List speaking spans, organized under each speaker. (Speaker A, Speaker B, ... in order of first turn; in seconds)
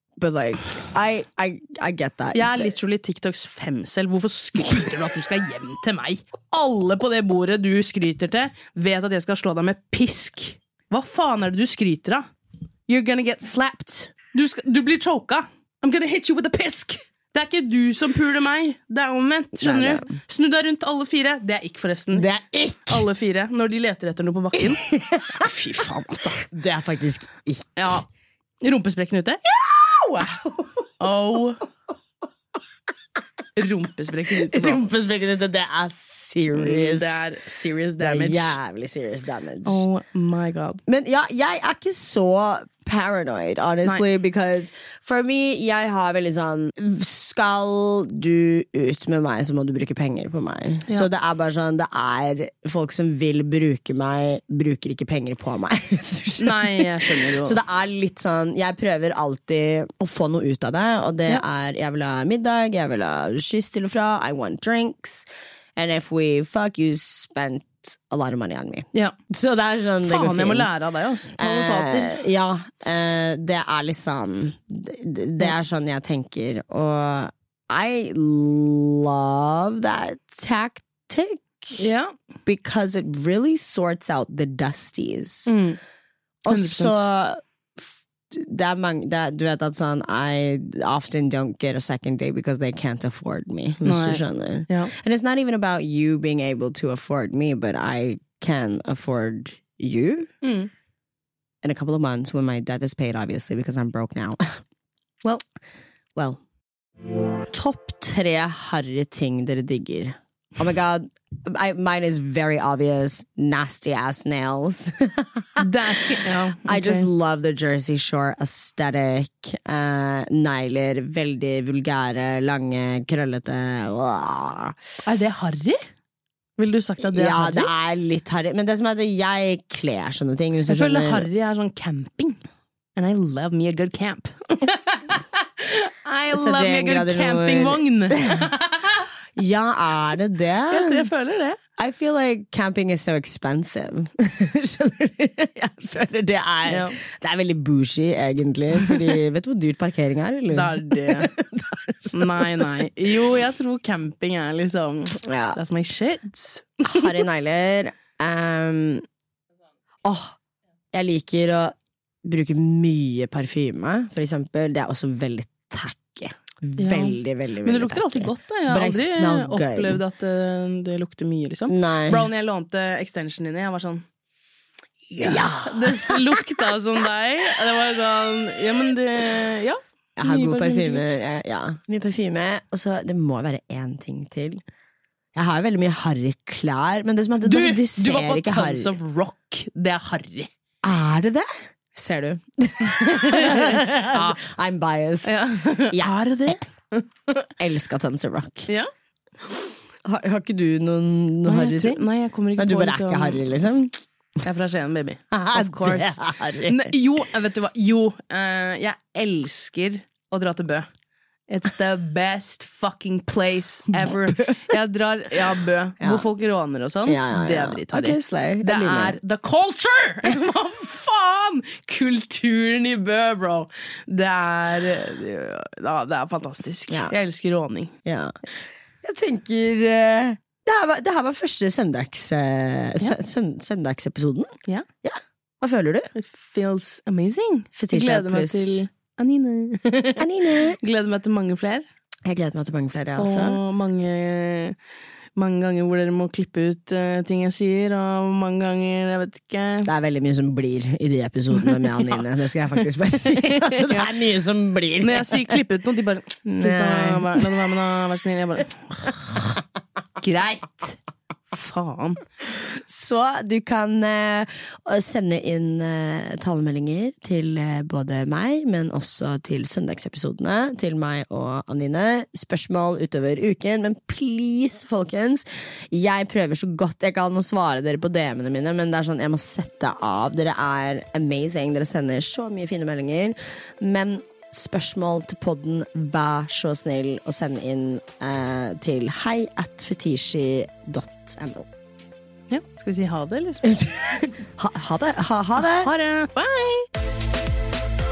Speaker A: 0.2-2.7, 19.6-20.1, 22.1-23.1, 24.6-25.5, 26.4-28.0, 29.5-30.9, 34.3-37.3, 38.0-39.9, 40.9-70.7, 71.4-81.8, 82.4-85.5, 86.4-100.3, 101.6-104.6, 106.1-106.4, 107.5-124.7, 127.0-131.3, 136.3-138.5, 139.3-141.1, 141.8-152.9, 155.1-155.6, 156.8-159.0, 160.0-160.4, 160.9-170.0, 171.7-172.3, 175.1-176.4, 180.2-184.6, 185.3-188.9, 190.8-196.6, 197.6-198.7, 199.4-202.0, 202.6-204.0, 205.3-207.0, 213.9-214.6, 216.0-216.3, 217.1-219.2, 226.9-227.1, 228.0-228.3, 229.0-236.1, 237.8-238.8, 240.2-240.8, 242.2-243.6, 249.8-255.6, 256.4-257.8, 262.4-291.7, 293.6-295.9
Speaker B: 2.3-12.2, 12.9-22.3, 22.9-26.5, 27.8-28.1, 28.6-29.4, 31.0-31.6, 33.5-34.9, 36.5-38.5, 39.6-40.8, 56.4-57.6, 70.0-72.2, 81.7-82.1, 85.5-85.8, 86.5-87.1, 93.8-94.9, 100.4-100.7, 115.6-117.1, 125.0-125.9, 126.6-127.7, 130.7-132.4, 132.9-139.1, 140.7-141.6, 146.7-147.0, 150.5-151.3, 152.1-157.2, 166.8-174.1, 175.2-181.1, 187.4-190.5, 192.9-194.4, 195.2-197.0, 201.4-203.5, 204.4-210.9, 211.5-228.0, 236.1-241.8, 243.2-244.8, 245.4-249.9, 251.6-252.2, 253.2-254.1, 255.0-259.4, 260.2-261.0, 261.5-262.2, 292.5-293.7, 295.6-296.9